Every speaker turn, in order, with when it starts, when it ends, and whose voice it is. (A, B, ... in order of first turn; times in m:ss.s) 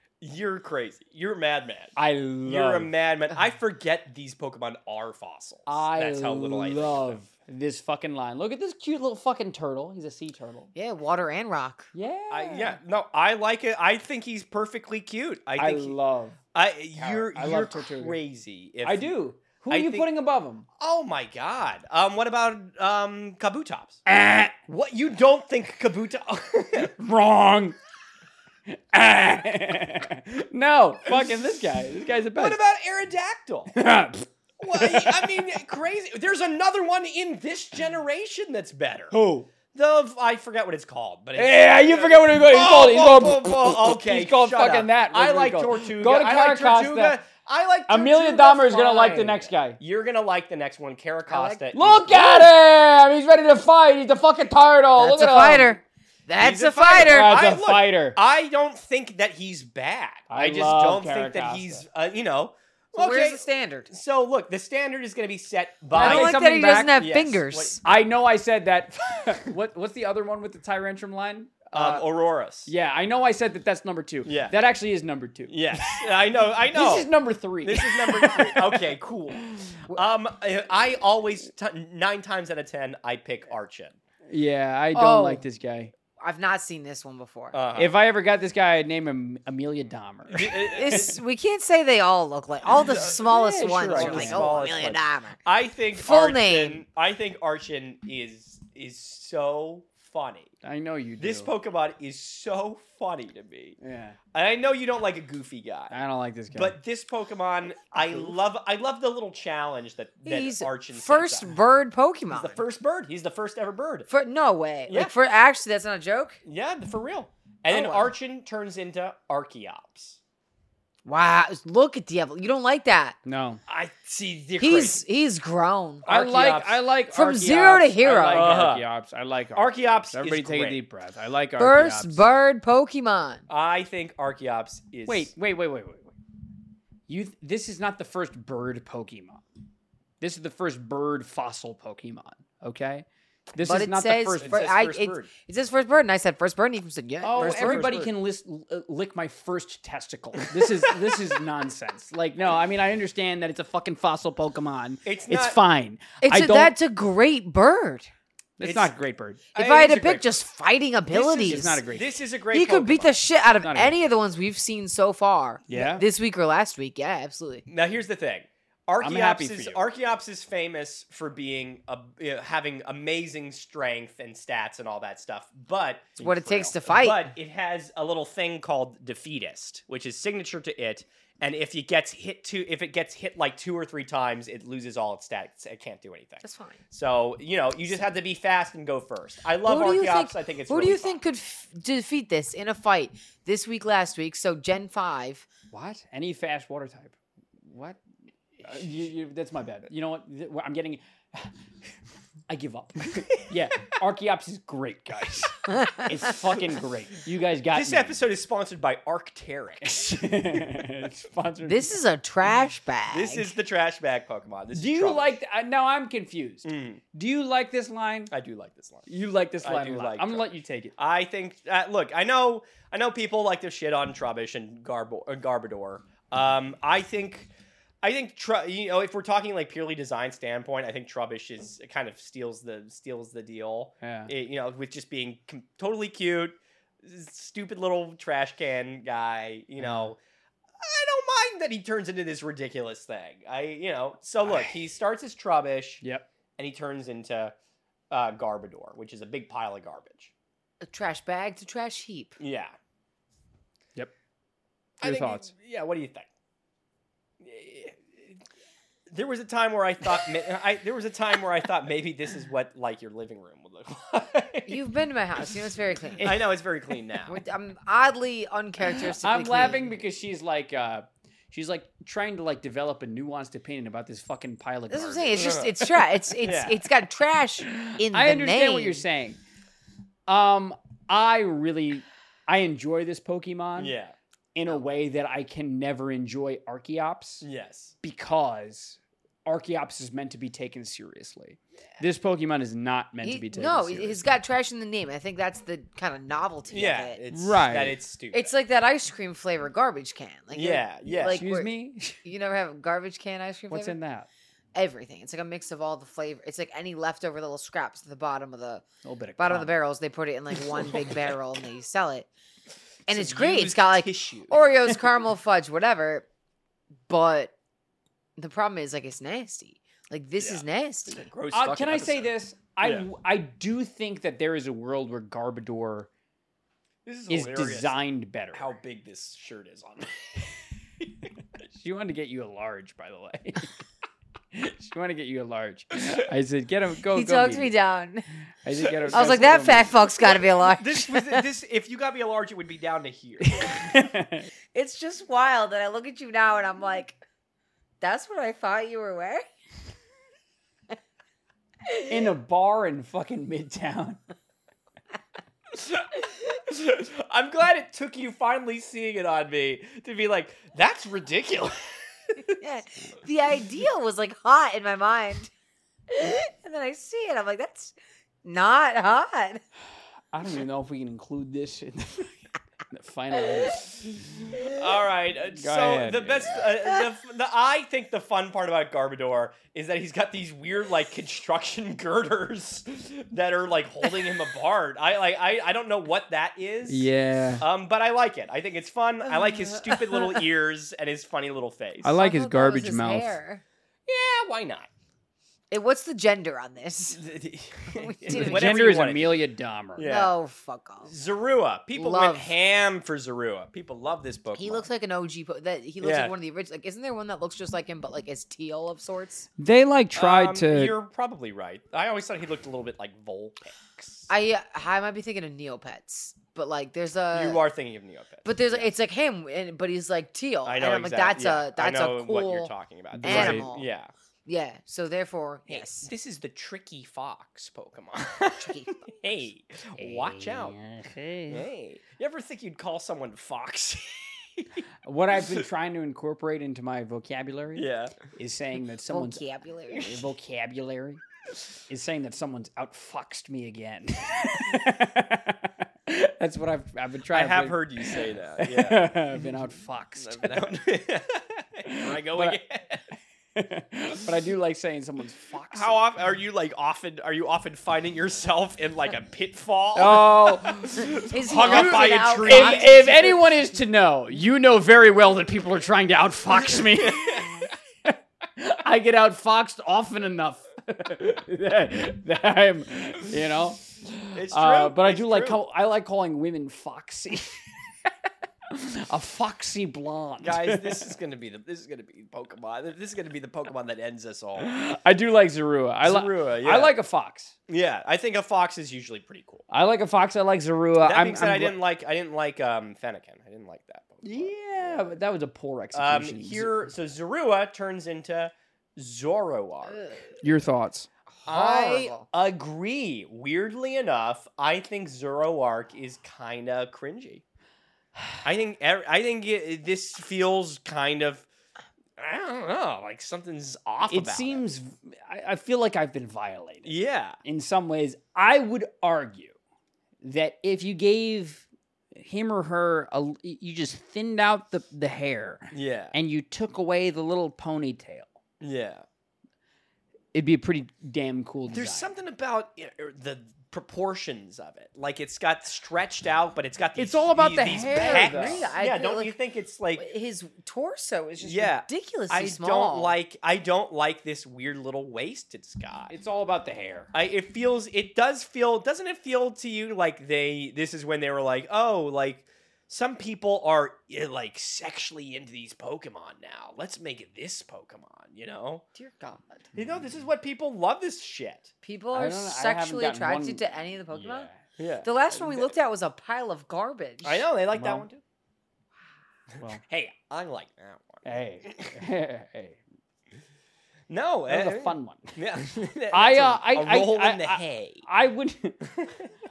0:00.2-0:07.2 A
0:02.0-0:02.9 B
0:05.7-0:10.7 B
0:10.8-0:11.9 C
0:11.9-0:12.8 B
0:12.3-0:16.0 A
0:15.6-0:16.4 B
0:16.5-0:19.2 A
0:17.0-0:18.2 B
0:18.8-0:20.7 B
0:19.7-0:20.1 A
0:20.8-0:24.0 A
0:24.1-0:24.6 B
0:24.7-0:26.9 A
0:26.9-0:27.8 B
0:28.7-0:32.6 B
0:32.4-0:33.8 A
0:33.8-0:35.4 B
0:34.6-0:39.1 A
0:39.1-0:39.5 B
0:39.7-0:52.5 A
0:41.4-0:47.2 B
0:47.9-0:49.8 B
0:51.3-0:51.6 C
0:51.7-0:55.8 B
0:55.0-0:57.4 C
0:56.4-1:06.4 A
0:57.0-0:58.2 B
1:00.3-1:01.8 B
1:02.9-1:03.9 C
1:05.9-1:07.0 B
1:06.0-1:07.8 C
1:07.0-1:07.8 A
1:07.8-1:12.0 B
1:11.7-1:12.7 A
1:12.7-1:16.2 B
1:14.2-1:14.6 A
1:15.5-1:17.1 A
1:16.7-1:18.9 B
1:17.6-1:24.0 A
1:24.3-1:25.9 B
1:24.9-1:25.4 C
1:26.2-1:27.6 C
1:27.5-1:27.9 A
1:27.8-1:31.1 B
1:30.3-1:31.2 A
1:30.7-1:35.4 C
1:32.9-1:33.2 A
1:33.0-1:34.6 B
1:33.9-1:40.5 A
1:36.0-1:36.8 C
1:40.6-1:41.5 B
1:41.2-1:43.8 A
1:43.8-1:44.2 B
1:44.3-1:46.0 A
1:45.9-1:46.8 B
1:46.5-1:51.6 A
1:48.0-1:48.2 B
1:50.2-1:52.6 C
1:52.3-1:54.1 A
1:54.1-1:56.4 C
1:54.9-1:55.2 A
1:56.4-2:00.2 A
1:57.7-1:58.1 C
2:01.0-2:03.2 C
2:03.2-2:03.6 B
2:03.7-2:05.0 A
2:04.6-2:06.1 C
2:06.0-2:06.8 A
2:06.1-2:12.2 B
2:07.1-2:08.5 C
2:08.3-2:08.8 A
2:09.6-2:10.8 A
2:11.6-2:13.4 C
2:13.5-2:15.3 A
2:15.1-2:16.1 B
2:17.1-2:19.4 B
2:20.2-2:24.7 B
2:23.6-2:28.0 C
2:24.4-2:25.3 A
2:27.2-2:36.7 B
2:27.4-2:28.1 A
2:30.5-2:31.2 A
2:35.0-2:35.6 A
2:36.2-2:38.1 C
2:38.6-2:39.5 B
2:38.6-2:38.9 A
2:39.5-2:40.4 A
2:39.5-2:41.8 C
2:41.1-2:43.1 A
2:41.3-2:42.1 B
2:42.5-2:47.6 C
2:43.6-2:44.0 B
2:45.7-2:46.0 B
2:47.7-3:11.2 A
2:49.0-2:49.8 B
2:56.2-2:57.3 C
2:56.2-2:56.7 B
3:06.4-3:06.8 C
3:09.6-3:15.5 C
3:15.7-3:18.0 B
3:18.6-3:21.6 B
3:22.5-3:28.2 B
3:25.7-3:26.1 C
3:27.7-3:30.1 A
3:29.8-3:32.0 B
3:31.7-3:33.5 C
3:33.1-3:35.4 A
3:34.7-3:38.3 B
3:36.6-3:37.0 A
3:38.3-3:39.1 A
3:39.1-3:41.0 B
3:39.6-3:47.5 A
3:48.0-4:00.2 A
3:54.0-3:54.3 B
3:59.8-4:00.1 B
4:00.8-4:06.0 A
4:04.4-4:04.7 B
4:06.6-4:07.6 A
4:08.1-4:10.3 A
4:10.8-4:12.4 C
4:12.4-4:12.7 A
4:15.0-4:16.3 A
4:15.0-4:15.5 B
4:17.4-4:18.4 A
4:19.1-4:24.8 A
4:24.7-4:26.4 C
4:26.2-4:27.4 A
4:27.3-4:29.9 C
4:29.0-4:35.6 B
4:34.9-4:39.0 C
4:35.4-4:35.9 A
4:36.4-4:36.8 A
4:37.8-4:39.4 B
4:40.3-4:44.0 B
4:43.8-4:44.2 A
4:44.6-4:47.5 B
4:47.4-4:48.0 A
4:48.0-4:54.2 B
4:53.2-4:57.2 C
4:56.7-4:58.5 A
4:57.3-4:58.0 B
4:58.3-5:01.7 C
5:00.5-5:01.4 A
5:01.3-5:02.2 B
5:02.2-5:04.0 C
5:03.7-5:04.3 B
5:04.8-5:08.8 C
5:09.0-5:09.7 B
5:09.4-5:12.3 C
5:13.1-5:16.3 C
5:13.1-5:14.7 A
5:17.1-5:17.5 C
5:18.4-5:21.3 C
5:20.4-5:23.1 A
5:21.5-5:26.1 B
5:27.0-5:28.0 A
5:27.3-5:28.7 B
5:28.5-5:30.4 A
5:31.7-5:33.8 B
5:34.5-5:37.7 B
5:37.1-5:38.3 C
5:38.6-5:40.0 B
5:38.8-5:39.5 A
5:39.1-5:41.4 C
5:40.6-5:43.8 A
5:43.5-5:44.5 B
5:44.7-5:47.2 C
5:48.0-5:49.4 C
5:52.0-5:54.2 B
5:55.7-6:02.6 A
6:02.6-6:05.5 C
6:06.1-6:09.6 C
6:10.3-6:12.4 B
6:12.9-6:14.5 B
6:14.5-6:32.2 A
6:15.5-6:16.8 B
6:26.9-6:27.6 B
6:29.8-6:30.3 C
6:32.0-6:33.4 B
6:32.2-6:33.6 C
6:34.1-6:34.9 A
6:35.7-6:37.2 C
6:37.1-6:39.4 A
6:37.9-6:38.7 C
6:38.3-6:40.1 B
6:40.0-6:40.3 A
6:40.0-6:41.1 C
6:41.1-6:44.9 A
6:42.0-6:42.5 C
6:44.6-6:49.5 C
6:46.0-6:46.4 A
6:49.6-6:51.0 B
6:50.2-6:54.3 A
6:54.3-6:57.6 C
6:57.3-6:58.9 A
6:58.4-7:02.7 C
7:00.7-7:04.1 A
7:03.1-7:03.7 B
7:03.2-7:03.9 C
7:04.5-7:06.1 C
7:05.7-7:10.8 A
7:08.6-7:09.1 C
7:10.0-7:11.7 B
7:11.5-7:14.8 A
7:15.0-7:21.2 B
7:17.8-7:18.2 A
7:19.1-7:20.3 C
7:21.9-7:30.7 B
7:27.3-7:33.1 A
7:31.9-7:32.6 B
7:33.6-7:36.0 B
7:35.7-7:43.5 A
7:40.0-7:47.5 B
7:41.0-7:43.0 C
7:46.9-7:47.6 A
7:48.0-7:58.1 B
7:54.4-7:55.6 A
7:58.7-8:01.1 B
8:00.4-8:04.7 A
8:04.6-8:07.5 B
8:06.0-8:07.0 A
8:07.7-8:09.6 A
8:09.7-8:11.8 B
8:11.0-8:15.2 A
8:14.2-8:16.8 B
8:15.9-8:20.1 A
8:20.4-8:21.1 B
8:21.4-8:22.3 C
8:21.5-8:27.4 A
8:28.4-8:31.5 A
8:32.2-8:34.6 A
8:34.1-8:39.5 B
8:36.8-8:37.4 A
8:40.2-8:48.4 B
8:45.7-8:46.2 A
8:48.6-8:49.0 A
8:50.3-8:52.1 B
8:51.7-9:00.1 A
8:57.0-8:58.7 B
8:57.9-8:59.3 C
9:00.0-9:03.2 C
9:01.4-9:06.1 A
9:06.1-9:07.1 B
9:07.1-9:18.8 A
9:19.0-9:19.8 C
9:19.8-9:21.7 A
9:21.8-9:24.5 C
9:22.1-9:24.6 B
9:24.8-9:25.7 A
9:25.0-9:27.4 C
9:27.2-9:28.2 A
9:27.7-9:28.0 B
9:29.6-9:32.0 A
9:31.2-9:32.8 B
9:34.1-9:38.1 A
9:34.5-9:35.4 B
9:36.1-9:39.0 B
9:39.0-9:39.3 A